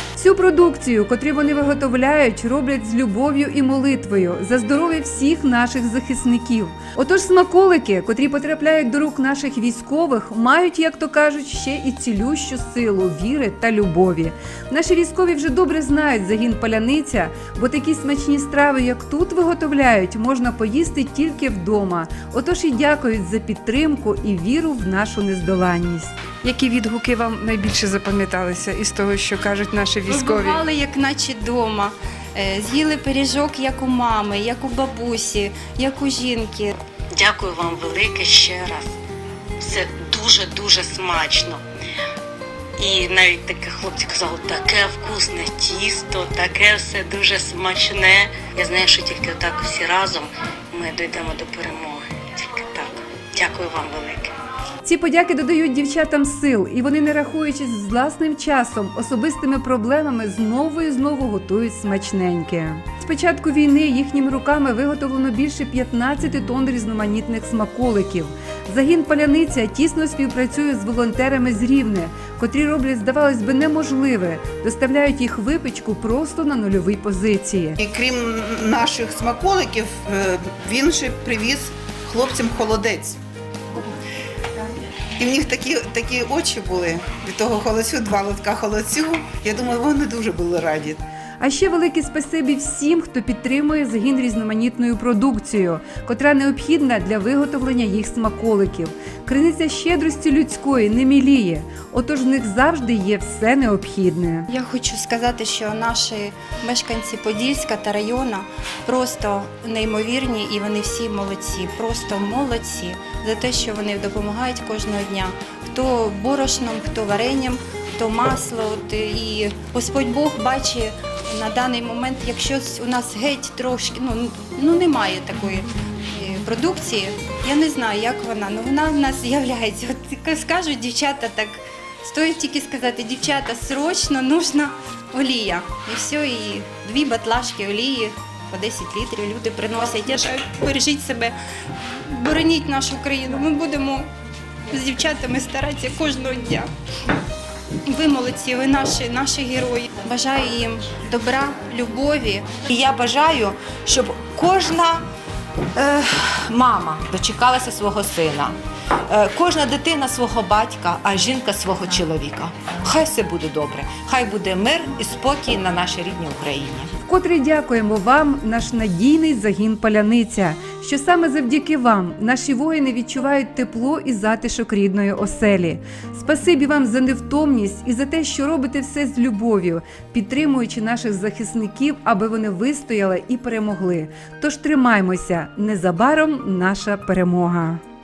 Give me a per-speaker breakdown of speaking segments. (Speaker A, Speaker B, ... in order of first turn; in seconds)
Speaker A: 0.1-30.6, 54.8-77.8, 91.4-104.5, 167.0-187.8
Speaker B: 30.1-36.8, 104.5-141.3, 142.0-144.1, 144.7-146.7, 147.9-152.6
Speaker C: 37.1-38.9, 39.6-41.6, 42.8-54.3
Speaker D: 77.8-83.2, 85.2-91.0
Speaker E: 152.6-155.0, 155.7-158.6, 159.1-166.9